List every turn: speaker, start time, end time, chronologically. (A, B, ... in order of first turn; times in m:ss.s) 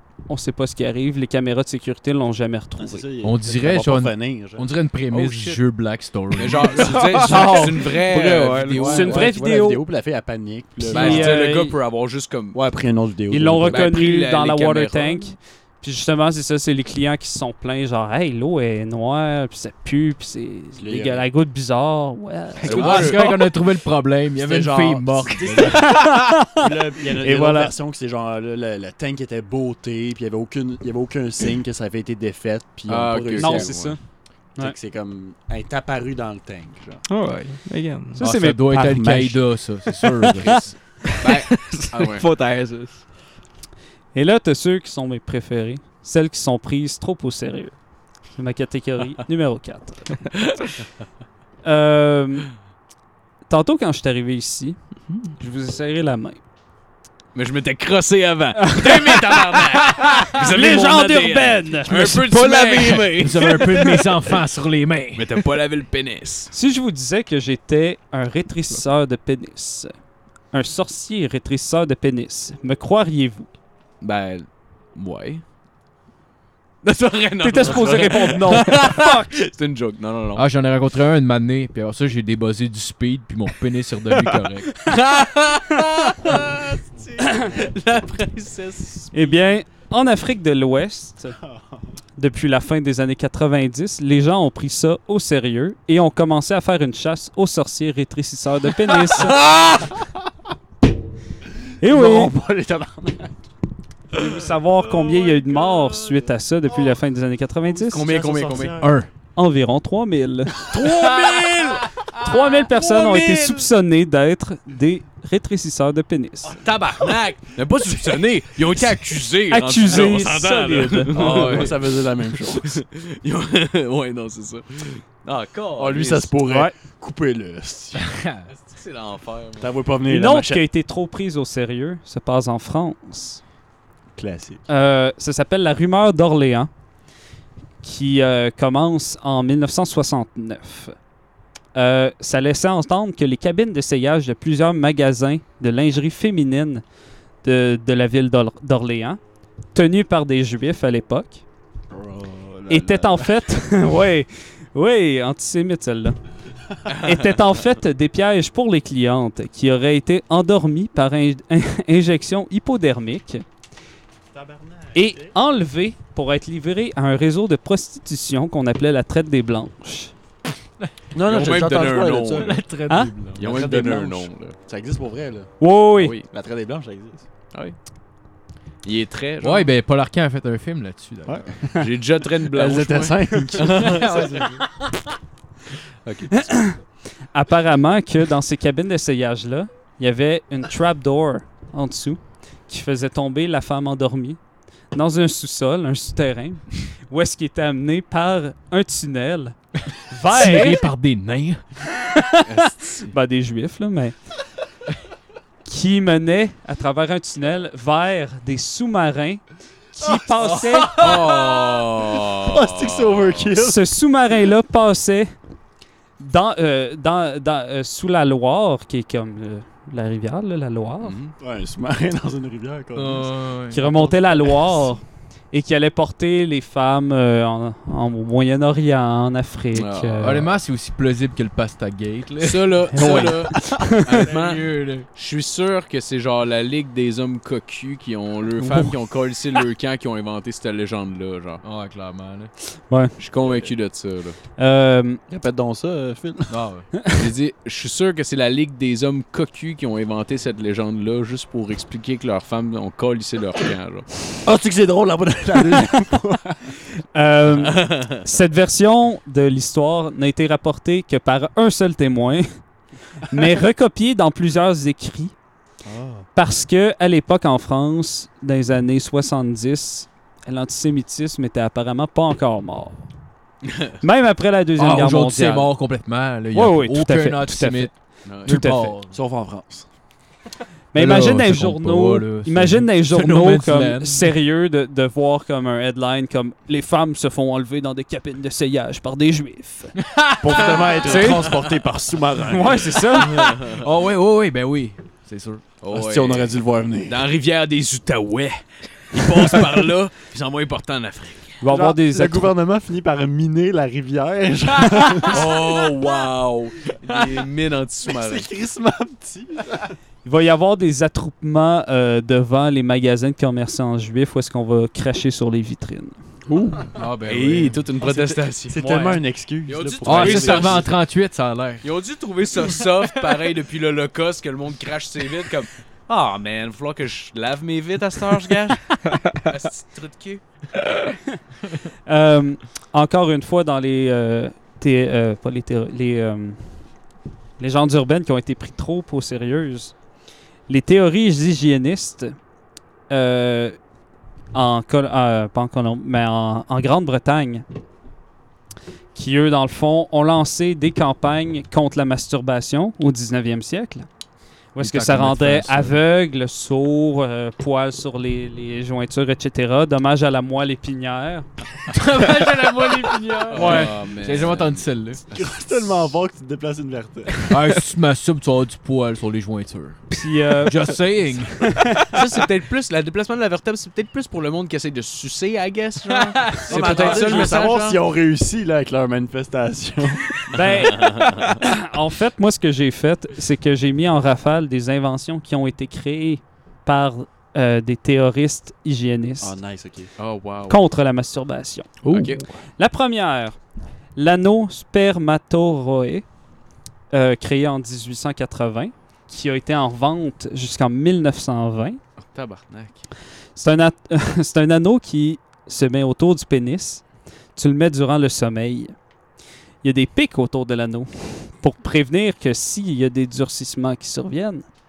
0:00.3-0:03.0 A
0:02.8-0:04.7 B
0:03.2-0:07.0 C
0:05.1-0:05.6 D
0:06.4-0:09.3 D
0:06.8-0:09.1 E
0:07.3-0:07.6 A
0:08.8-0:11.4 B
0:08.8-0:09.8 A
0:10.8-0:11.8 A
0:10.9-0:12.6 D
0:12.5-0:13.9 B
0:13.3-0:23.3 A
0:13.7-0:15.3 D
0:20.8-0:21.2 B
0:22.6-0:23.3 D
0:22.6-0:25.9 C
0:24.4-0:26.0 B
0:25.7-0:27.7 A
0:26.6-0:33.8 B
0:32.9-0:34.0 D
0:33.4-0:34.0 A
0:34.6-0:37.0 B
0:37.0-0:38.2 E
0:38.2-0:38.8 A
0:38.2-0:40.6 C
0:38.6-0:39.6 B
0:40.4-0:42.2 D
0:41.0-0:43.0 E
0:44.1-0:47.8 A
0:48.3-0:50.1 A
0:51.6-0:52.5 A
0:53.5-0:54.8 A
0:55.4-0:56.4 A
0:57.3-1:03.6 D
0:58.6-1:02.1 A
1:01.9-1:05.2 C
1:05.2-1:06.5 D
1:06.5-1:09.9 A
1:10.5-1:13.5 A
1:14.0-1:15.4 D
1:16.8-1:20.4 D
1:17.4-1:19.4 A
1:20.4-1:24.7 C
1:24.8-1:29.4 D
1:29.1-1:31.4 A
1:32.2-1:39.4 A
1:39.1-1:40.0 D
1:41.8-1:42.3 A
1:41.8-1:43.4 B
1:44.1-1:48.0 A
1:45.1-1:46.0 B
1:47.6-1:49.0 B
1:47.9-1:48.8 D
1:48.8-1:49.1 C
1:49.4-1:50.7 A
1:50.7-1:53.7 D
1:52.2-1:56.6 A
1:56.4-2:06.3 D
1:59.5-2:01.6 A
2:01.1-2:02.8 B
2:05.8-2:08.0 B
2:06.4-2:06.7 A
2:08.0-2:08.5 C
2:08.5-2:09.7 D
2:09.6-2:10.6 B
2:10.1-2:13.4 A
2:14.2-2:14.6 B
2:14.7-2:16.7 A
2:17.8-2:20.9 A
2:21.7-2:26.8 A
2:27.4-2:29.2 A
2:29.7-2:31.4 A
2:31.9-2:33.4 B
2:32.7-2:36.2 A
2:36.9-2:37.3 D
2:36.9-2:43.4 A
2:44.3-2:45.3 B
2:44.9-2:50.1 A
2:51.1-2:52.6 B
2:51.2-2:52.5 D
2:52.4-2:53.5 C
2:53.4-2:54.6 D
2:53.4-2:55.5 B
2:55.6-2:56.2 A
2:56.0-2:56.3 D
2:56.3-2:57.2 B
2:58.8-2:59.7 D
2:59.4-3:01.6 C
3:01.2-3:01.9 B
3:01.8-3:04.4 D
3:02.4-3:04.4 B
3:04.0-3:04.6 C
3:06.0-3:06.4 D
3:06.3-3:06.8 A
3:07.3-3:14.4 A
3:14.9-3:20.8 A
3:20.3-3:21.6 C
3:22.0-3:24.2 A
3:22.5-3:23.1 D
3:25.6-3:31.1 A
3:30.0-3:33.8 B
3:30.4-3:33.5 D
3:33.6-3:35.3 A
3:36.2-3:41.2 A
3:41.0-3:41.3 D
3:41.4-3:43.3 B
3:43.0-3:43.9 C
3:43.7-3:50.5 A
3:44.0-3:44.5 B
3:49.7-3:50.4 D
3:50.2-3:53.4 C
3:52.4-4:01.6 D
3:53.0-3:54.2 A
3:54.1-3:55.0 C
4:01.6-4:02.5 C
4:02.9-4:03.1 A
4:03.2-4:04.4 D
4:04.6-4:05.2 A
4:05.3-4:06.5 B
4:06.5-4:06.8 C
4:07.1-4:14.1 D
4:14.4-4:16.7 B
4:17.1-4:22.5 A
4:17.6-4:18.2 D
4:23.3-4:25.3 A
4:25.8-4:26.3 B
4:26.3-4:33.0 A
4:34.0-4:35.7 A
4:34.8-4:37.9 C
4:36.5-4:38.9 A
4:38.2-4:38.5 D
4:38.4-4:39.1 C
4:39.1-4:39.9 B
4:40.9-4:50.1 A
4:40.9-4:44.3 C
4:50.0-4:51.3 C
4:50.4-4:53.2 B
4:51.0-4:51.7 A
4:52.4-4:53.8 A
4:53.6-4:55.6 C
4:55.8-4:56.5 D
4:55.9-4:57.2 B
4:57.0-5:01.6 D
5:01.6-5:02.5 A
5:01.6-5:05.7 B
5:05.2-5:08.5 D
5:08.1-5:10.0 B
5:10.2-5:16.2 A
5:16.5-5:16.8 E
5:16.9-5:17.8 C
5:17.2-5:20.9 D
5:18.0-5:20.9 B
5:18.8-5:19.2 A
5:20.0-5:21.8 C
5:21.8-5:28.9 D
5:29.4-5:30.4 D
5:32.0-5:36.7 A
5:37.6-5:39.9 A
5:40.7-5:42.4 A
5:43.1-5:43.8 A
5:44.5-5:47.6 A
5:49.1-5:54.1 A
5:54.7-6:01.5 A
5:54.8-5:56.0 C
6:01.9-6:05.2 C
6:03.5-6:05.5 D
6:05.3-6:07.5 B
6:07.5-6:10.1 C
6:10.1-6:12.2 A
6:10.6-6:11.7 C
6:12.1-6:18.0 D
6:16.7-6:20.6 B
6:16.7-6:17.5 A
6:20.5-6:29.5 A
6:20.9-6:21.4 D
6:29.4-6:30.1 B
6:30.2-6:30.8 D
6:30.7-6:31.9 A
6:32.0-6:32.5 E
6:32.0-6:32.4 D
6:32.8-6:33.6 A
6:34.2-6:36.2 A
6:37.1-6:42.0 A
6:42.2-6:43.1 D
6:43.6-6:48.9 A
6:49.8-6:54.7 A